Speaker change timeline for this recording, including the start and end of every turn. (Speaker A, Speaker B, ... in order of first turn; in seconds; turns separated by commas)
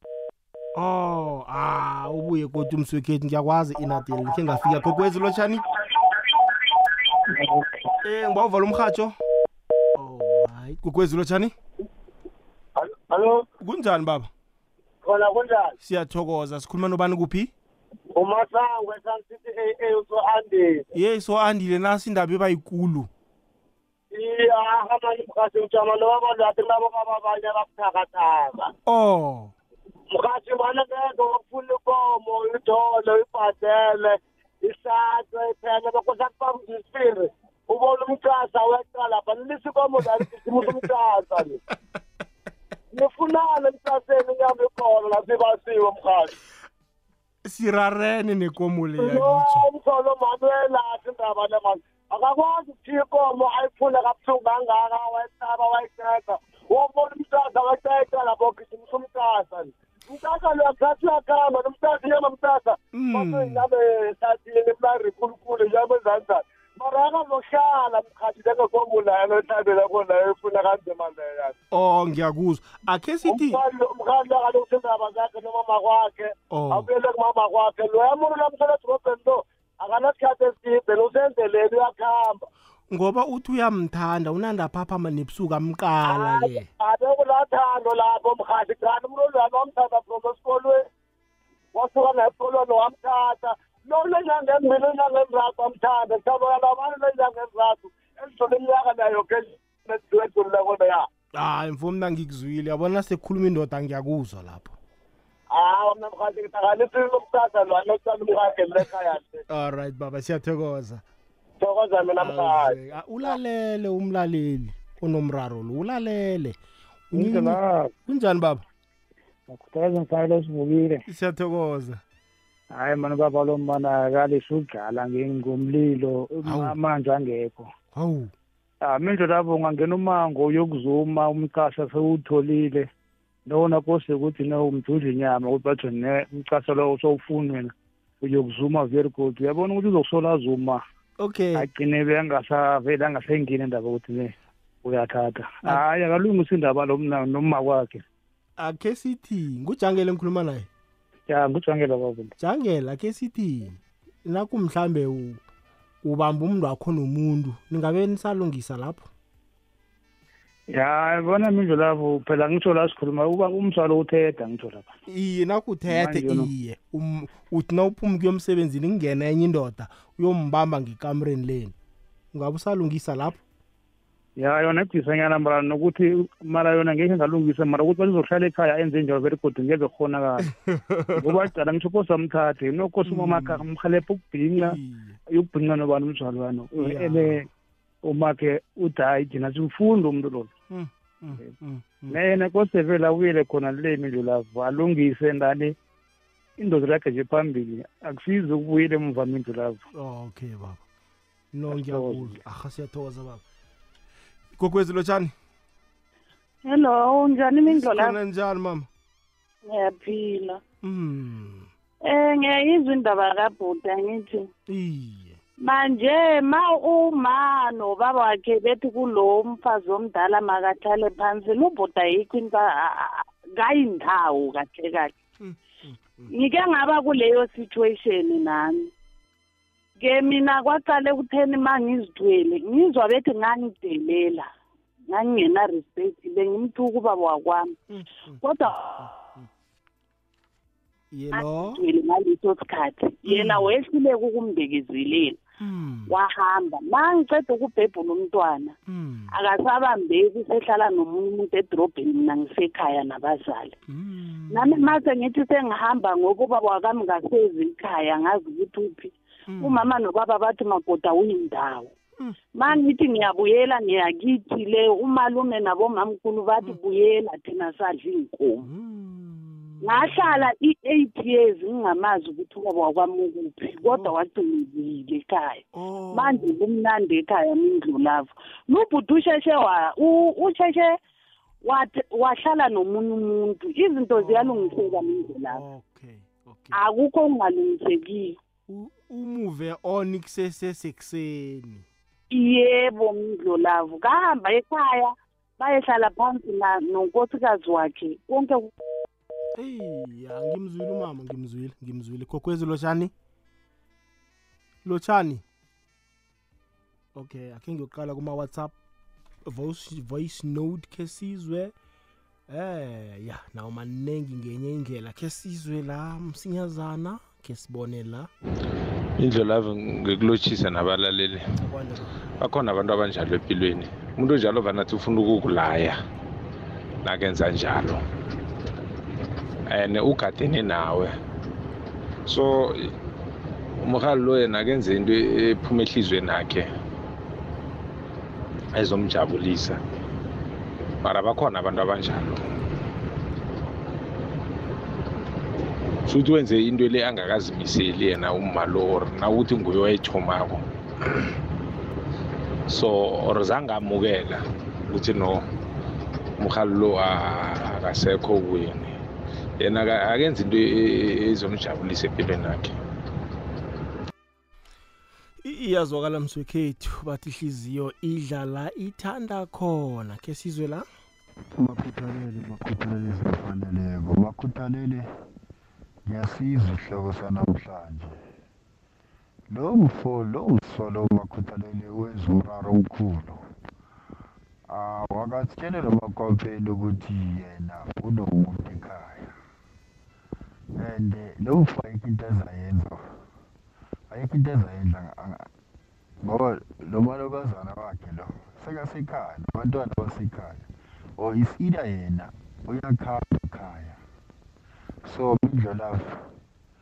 Speaker A: 0.8-5.6, Speaker A: 8.0-9.1, Speaker A: 10.0-11.5, Speaker B: 12.8-13.4, Speaker A: 13.6-14.3, Speaker B: 15.0-15.7, Speaker A: 15.8-17.5, Speaker B: 18.1-20.8, Speaker A: 20.9-23.1, Speaker B: 24.1-28.7, Speaker A: 28.9-29.5, Speaker B: 30.1-41.6, Speaker B: 42.9-46.3, Speaker A: 47.5-49.7, Speaker B: 49.0-71.5, Speaker A: 62.9-63.7, Speaker A: 71.7-73.6, Speaker B: 73.3-82.5, Speaker A: 76.5-76.9, Speaker A: 82.9-86.7, Speaker B: 86.0-90.9, Speaker B: 91.7-101.1, Speaker A: 101.3-104.8, Speaker B: 105.5-109.4, Speaker A: 109.5-111.0, Speaker B: 111.6-112.7, Speaker A: 112.2-116.6, Speaker A: 117.1-118.6, Speaker C: 117.1-117.8, Speaker C: 119.5-121.0, Speaker A: 121.1-122.0, Speaker C: 122.7-127.7, Speaker A: 126.4-126.8, Speaker A: 127.9-128.3, Speaker C: 128.8-132.9, Speaker C: 133.5-137.7, Speaker C: 138.2-140.8, Speaker A: 141.2-141.7, Speaker C: 141.6-144.3, Speaker C: 144.8-148.0, Speaker A: 148.6-150.7, Speaker C: 151.3-152.3, Speaker A: 152.4-155.4, Speaker A: 156.0-159.1, Speaker C: 160.7-164.9, Speaker A: 165.1-171.8, Speaker C: 165.9-166.5, Speaker A: 172.3-173.4, Speaker C: 174.4-180.4, Speaker A: 180.4-181.4, Speaker C: 181.2-184.8, Speaker A: 183.1-183.7, Speaker A: 184.6-185.2, Speaker C: 185.3-187.3, Speaker A: 186.8-187.5, Speaker C: 188.1-190.5, Speaker A: 190.7-192.2, Speaker C: 192.1-195.7, Speaker C: 196.6-199.8, Speaker A: 199.9-200.8, Speaker A: 201.5-203.4, Speaker A: 204.6-205.3, Speaker D: 206.7-208.2, Speaker A: 207.7-208.9, Speaker D: 209.7-210.6, Speaker A: 210.8-211.7, Speaker D: 212.1-214.5, Speaker A: 214.7-215.4, Speaker D: 215.7-225.1, Speaker A: 225.4-226.3, Speaker D: 226.3-228.9, Speaker D: 230.0-234.5, Speaker D: 235.1-237.7, Speaker A: 237.9-239.5, Speaker D: 238.4-238.9, Speaker A: 241.1-241.8, Speaker D: 241.3-245.4, Speaker A: 243.3-243.7, Speaker A: 245.6-246.1, Speaker D: 246.1-248.7, Speaker A: 248.9-249.3, Speaker D: 249.3-253.8, Speaker A: 253.9-255.0, Speaker D: 254.5-261.9, Speaker A: 259.5-259.9, Speaker A: 262.2-262.8, Speaker D: 262.6-268.7, Speaker A: 268.6-270.5, Speaker D: 269.8-281.0, Speaker A: 273.8-274.1, Speaker A: 275.7-276.6, Speaker D: 281.6-285.6, Speaker A: 284.1-286.8, Speaker D: 286.7-288.4, Speaker A: 288.7-291.9, Speaker D: 292.3-298.7, Speaker A: 299.6-303.1, Speaker A: 304.9-305.4, Speaker A: 307.1-308.8, Speaker A: 309.5-311.7, Speaker A: 312.5-318.3, Speaker E: 319.2-321.4, Speaker A: 321.6-322.1, Speaker E: 322.4-326.0, Speaker E: 327.1-328.0, Speaker E: 329.7-331.1, Speaker E: 332.3-332.9, Speaker E: 333.8-336.7, Speaker E: 338.8-339.8, Speaker E: 341.0-342.5, Speaker E: 346.1-350.6, Speaker E: 352.7-355.4, Speaker E: 356.4-358.9, Speaker E: 359.6-362.8, Speaker A: 365.4-370.9, Speaker F: 371.6-375.1, Speaker F: 376.1-378.1, Speaker F: 379.5-383.4, Speaker F: 384.7-389.3, Speaker F: 390.8-393.0, Speaker F: 394.1-395.4, Speaker F: 396.2-400.7, Speaker F: 401.2-404.0, Speaker F: 405.1-406.2